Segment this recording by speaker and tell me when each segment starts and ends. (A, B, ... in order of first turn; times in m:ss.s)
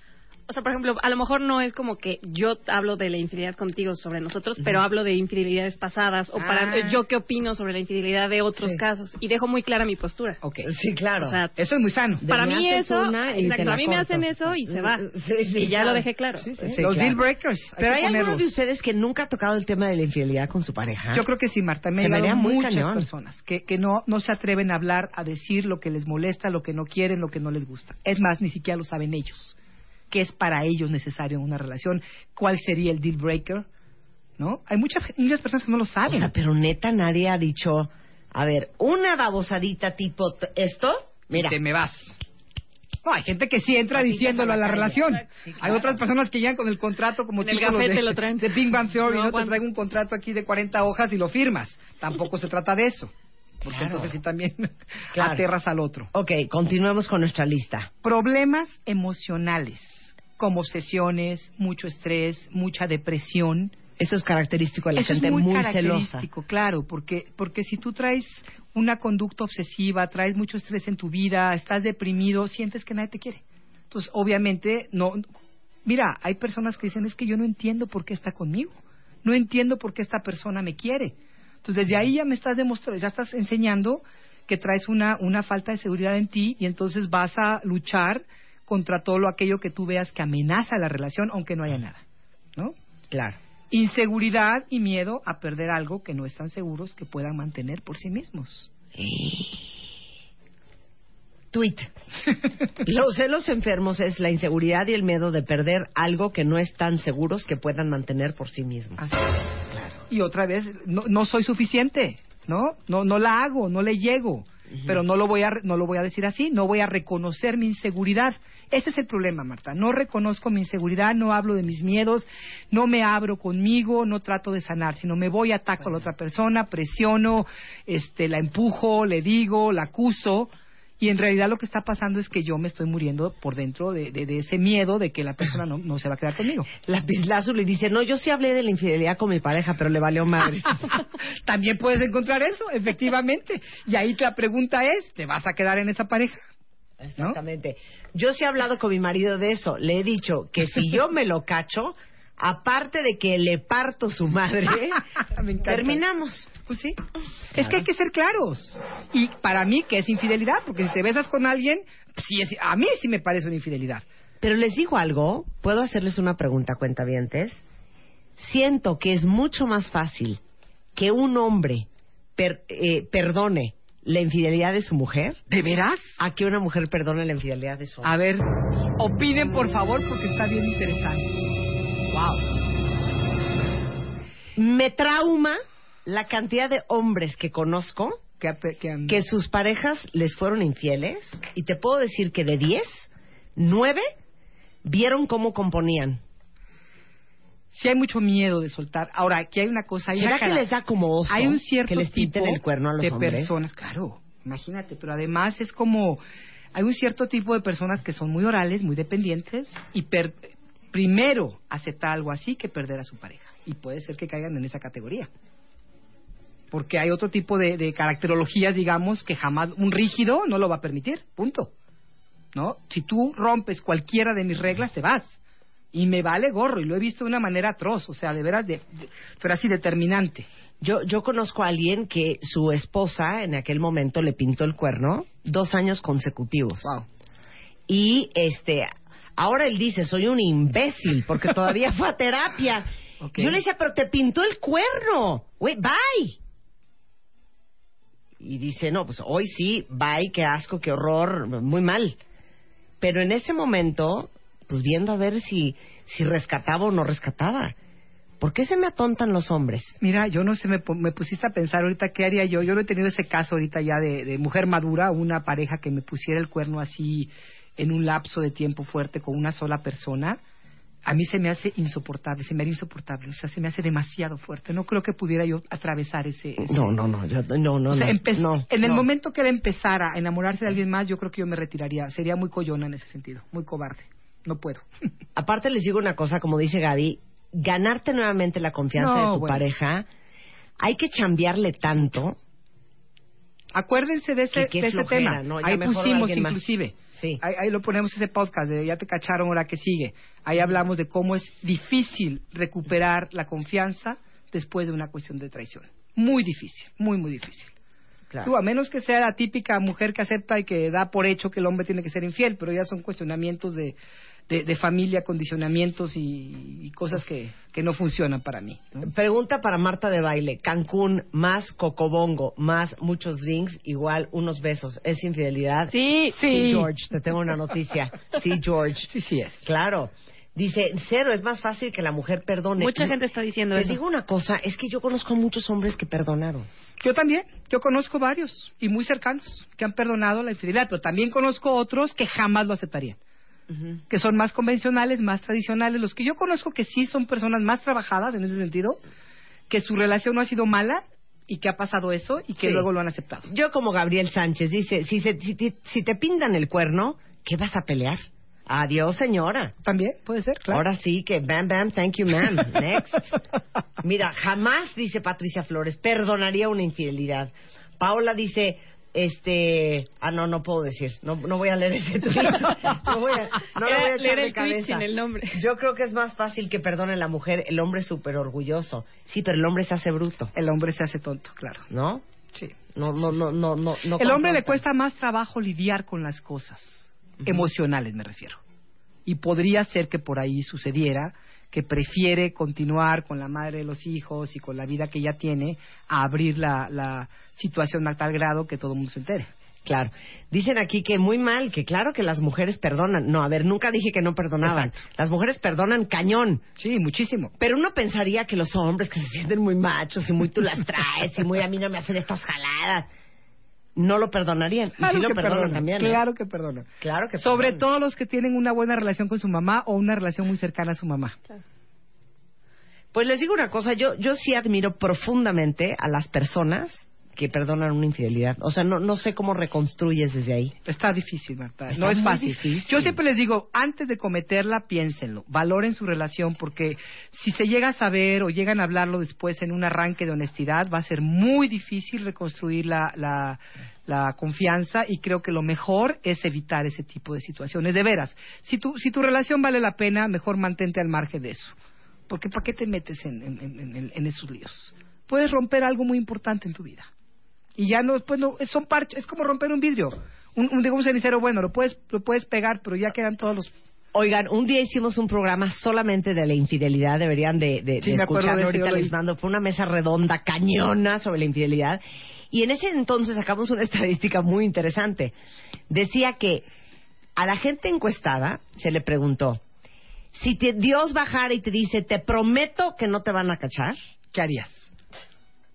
0:00.5-0:10.4 A
0:06.4-0:07.0 B
0:10.4-0:10.7 B
0:10.6-0:11.4 C
0:11.2-0:11.5 A
0:11.6-0:12.2 B
0:12.2-0:16.0 C
0:12.3-0:16.5 A
0:16.4-0:18.5 B
0:16.6-0:17.2 C
0:17.8-0:21.3 C
0:21.1-0:29.6 B
0:22.0-0:23.1 C
0:30.1-0:33.6 B
0:34.4-0:36.3 B
0:36.1-0:41.6 C
0:41.3-0:42.2 B
0:43.0-0:53.1 B
0:43.9-0:46.0 C
0:47.4-0:49.6 A
0:53.6-0:54.1 C
0:53.6-0:56.1 B
0:55.1-0:55.4 C
0:56.1-0:57.9 C
0:58.0-1:03.8 B
1:04.0-1:06.3 C
1:05.0-1:15.2 B
1:15.8-1:32.0 B
1:33.1-1:33.4 C
1:33.7-1:38.7 B
1:39.0-1:39.7 C
1:41.5-1:41.9 C
1:42.8-1:49.2 C
1:49.0-1:49.3 B
1:49.7-1:50.0 C
1:50.1-2:16.7 B
2:16.8-2:21.0 C
2:21.4-2:26.4 B
2:27.0-2:35.1 C
2:35.2-2:36.0 B
2:35.6-2:36.5 C
2:36.6-2:37.0 B
2:37.5-2:37.9 C
2:37.5-2:44.0 B
2:44.4-2:47.6 C
2:48.4-2:50.4 C
2:51.0-2:55.4 C
2:55.5-2:56.2 B
2:56.2-2:58.1 C
2:58.0-2:58.4 B
2:59.0-3:01.3 B
3:02.1-3:02.4 B
3:04.6-3:08.2 C
3:08.4-3:09.2 B
3:09.1-3:14.1 C
3:14.8-3:16.2 C
3:17.7-3:20.7 B
3:20.2-3:23.6 C
3:21.3-3:26.2 B
3:26.7-3:35.3 B
3:36.7-3:41.7 B
3:42.5-3:45.4 B
3:45.9-3:50.5 B
3:50.8-3:56.9 C
3:57.9-4:06.4 C
4:03.2-4:03.6 B
4:08.4-4:12.2 C
4:13.0-4:17.7 C
4:18.4-4:20.0 C
4:20.0-4:30.4 B
4:31.0-4:37.0 B
4:36.6-4:39.1 C
4:37.9-4:44.8 B
4:45.4-4:50.1 C
4:48.9-4:49.6 B
4:50.8-4:52.4 C
4:53.7-5:07.7 B
4:54.5-4:56.6 C
4:57.1-4:57.4 C
5:08.4-5:14.0 B
5:14.5-5:19.0 B
5:19.0-5:29.1 C
5:25.9-5:26.8 A
5:26.3-5:26.8 B
5:29.1-5:29.6 B
5:29.6-5:33.2 C
5:32.8-5:34.0 A
5:33.7-5:36.7 C
5:37.0-5:43.2 B
5:44.1-5:49.0 B
5:49.7-5:53.5 B
5:52.6-5:52.9 C
5:53.4-5:59.7 C
5:59.8-6:00.8 B
6:00.7-6:03.3 C
6:04.0-6:20.5 C
6:13.7-6:15.6 A
6:20.5-6:21.8 B
6:21.9-6:22.2 C
6:22.9-6:24.8 C
6:24.2-6:28.6 B
6:29.2-6:39.5 B
6:39.8-6:46.6 C
6:44.6-6:44.9 B
6:46.8-6:47.5 B
6:47.6-6:53.1 C
6:54.0-6:56.2 C
6:55.0-6:56.9 B
6:57.0-6:57.8 C
6:57.4-7:01.4 B
7:03.1-7:10.7 C
7:10.8-7:31.7 B
7:11.9-7:13.2 C
7:32.3-7:37.1 B
7:37.8-7:43.7 B
7:44.1-7:55.3 C
7:48.0-7:49.1 B
7:55.9-7:56.6 C
7:57.4-7:59.6 C
8:00.3-8:04.0 C
8:04.3-8:04.9 B